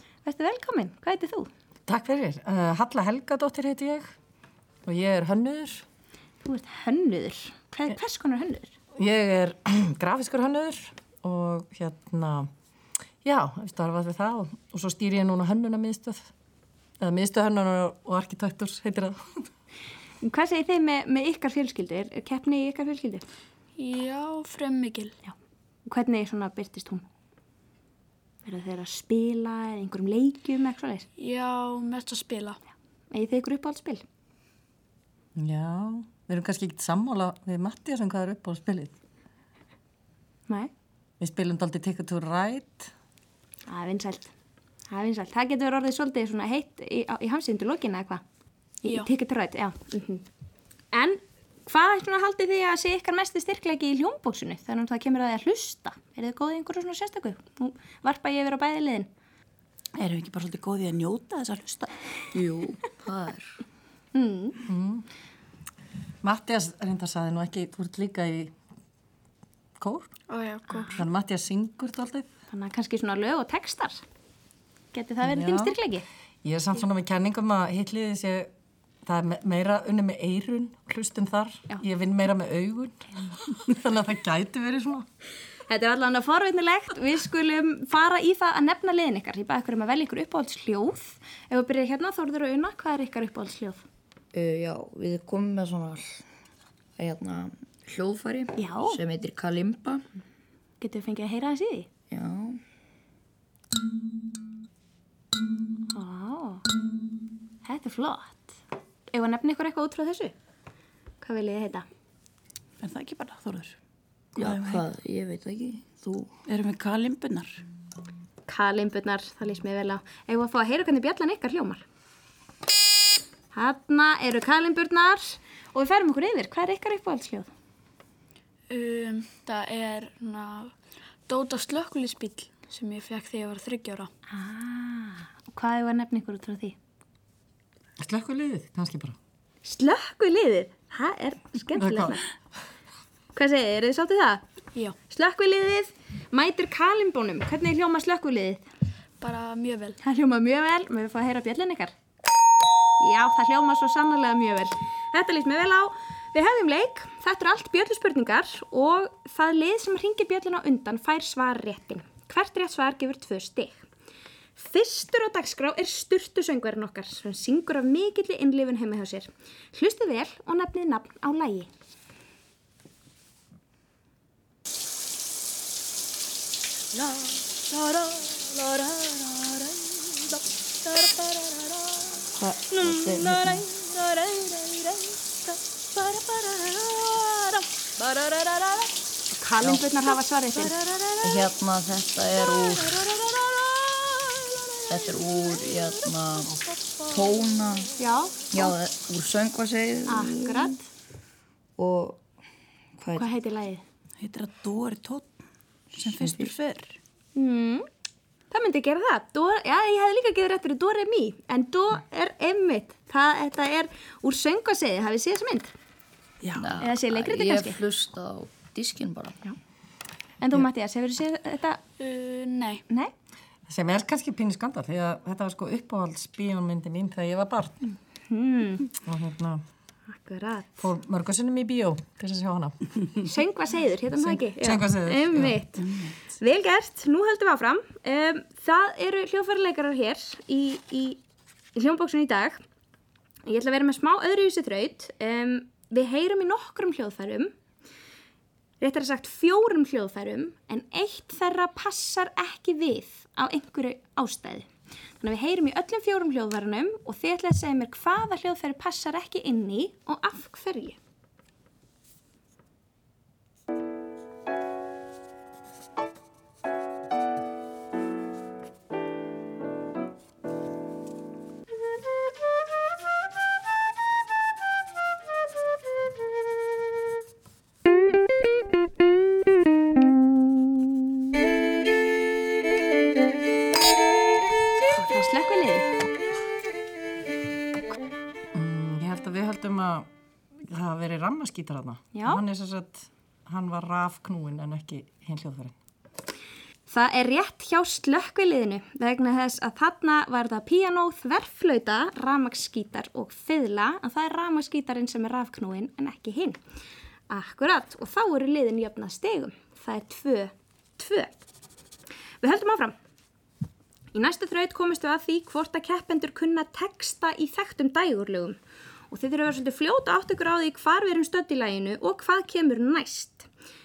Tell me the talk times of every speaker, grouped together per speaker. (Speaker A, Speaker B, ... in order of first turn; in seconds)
Speaker A: 0.2-1.5, 6.4-8.7, 20.2-23.2, 25.8-27.0, 28.4-31.1, 33.1-34.0, 43.7-44.3, 44.9-48.2, 48.8-50.2, 50.9-59.1, 64.1-64.6, 70.7-71.0, 72.5-74.0, 74.9-76.0, 85.7-93.8, 98.6-99.0, 100.8-101.9, 105.9-106.6, 107.6-108.5, 109.1-110.3, 111.2-111.8, 118.5-121.8, 123.5-127.5, 134.3-136.8, 139.6-142.2, 143.3-144.4, 145.1-148.6, 150.0-151.9, 153.0-163.9, 164.6-171.7, 182.7-184.9, 189.3-190.7, 198.0-198.7, 200.1-200.8, 203.2-203.8, 207.3-207.8, 208.5-215.7, 216.8-217.8, 220.4-221.8, 228.3-228.9, 230.1-230.8, 233.2-241.2, 241.7-242.6, 243.4-247.5, 248.8-254.7, 255.2-261.0, 284.9-285.9, 292.1-292.4, 296.9-306.6, 307.3-311.4, 312.4-312.9, 314.1-318.6, 319.1-323.5
Speaker B: 1.9-4.1, 4.8-5.8, 8.9-12.5, 13.2-16.3, 17.0-19.4, 35.4-38.9, 41.2-42.9, 64.6-65.0, 66.2-68.5, 69.8-70.1, 71.0-72.3, 75.2-75.8, 76.4-78.5, 79.0-85.1, 138.0-139.2, 141.7-142.2, 223.7-227.8, 229.0-229.6, 230.8-232.8, 234.2-235.6, 288.5-295.7
Speaker C: 23.8-25.1, 31.2-32.6, 70.3-71.0, 128.7-130.7, 131.3-134.1, 149.2-150.0, 222.0-222.8
Speaker D: 60.0-61.9, 112.8-113.8, 114.3-114.8, 116.5-117.6, 204.2-205.3, 205.9-207.0, 216.4-216.7, 235.8-236.1
Speaker E: 62.3-63.6, 94.3-96.2, 97.0-100.0, 102.1-102.6, 114.4-116.3, 182.3-183.7, 191.2-193.2, 194.9-197.9, 198.5-200.8, 201.8-202.2, 203.0-203.3, 216.5-219.4